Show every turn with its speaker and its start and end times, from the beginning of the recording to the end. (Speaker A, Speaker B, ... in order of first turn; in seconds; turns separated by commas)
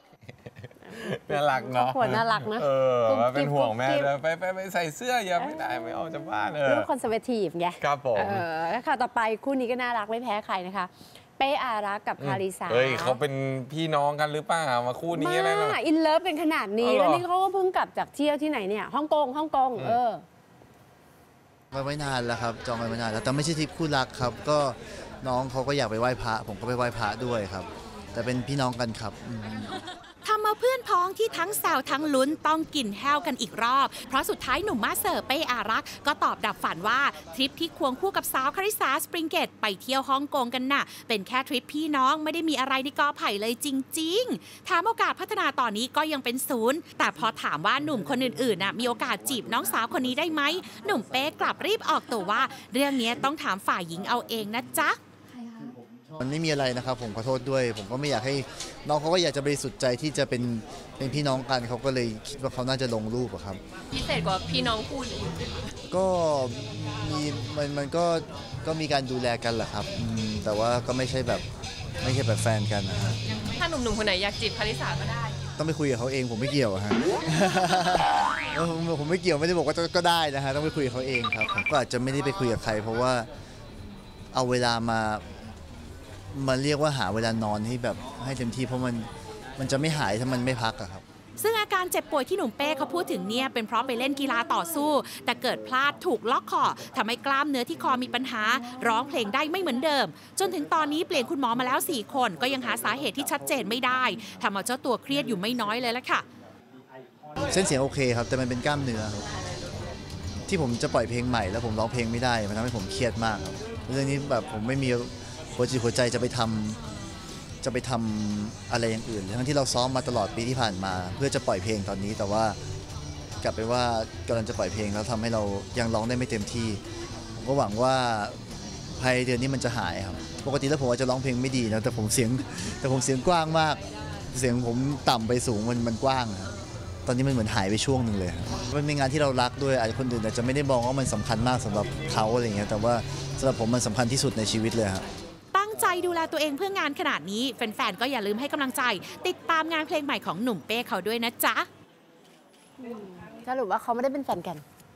Speaker A: 0.5-6.9, Speaker B: 1.2-4.1, Speaker B: 5.4-5.7, Speaker B: 6.7-13.2, Speaker A: 7.8-8.4, Speaker A: 12.2-15.8, Speaker B: 15.1-20.2, Speaker A: 16.8-17.2, Speaker C: 21.7-29.7, Speaker D: 30.2-55.0, Speaker C: 56.2-63.6, Speaker E: 64.0-65.2, Speaker C: 65.9-71.4, Speaker C: 72.0-73.2, Speaker E: 73.6-74.9, Speaker C: 75.6-83.3, Speaker C: 84.3-85.2, Speaker C: 86.3-91.0, Speaker D: 91.4-106.2, Speaker C: 107.5-109.2, Speaker C: 110.5-116.8, Speaker C: 117.6-122.6, Speaker C: 123.4-126.8, Speaker C: 127.4-128.4, Speaker C: 129.0-133.8, Speaker C: 134.3-136.5, Speaker C: 137.1-145.0, Speaker D: 145.5-151.7, Speaker B: 152.8-154.6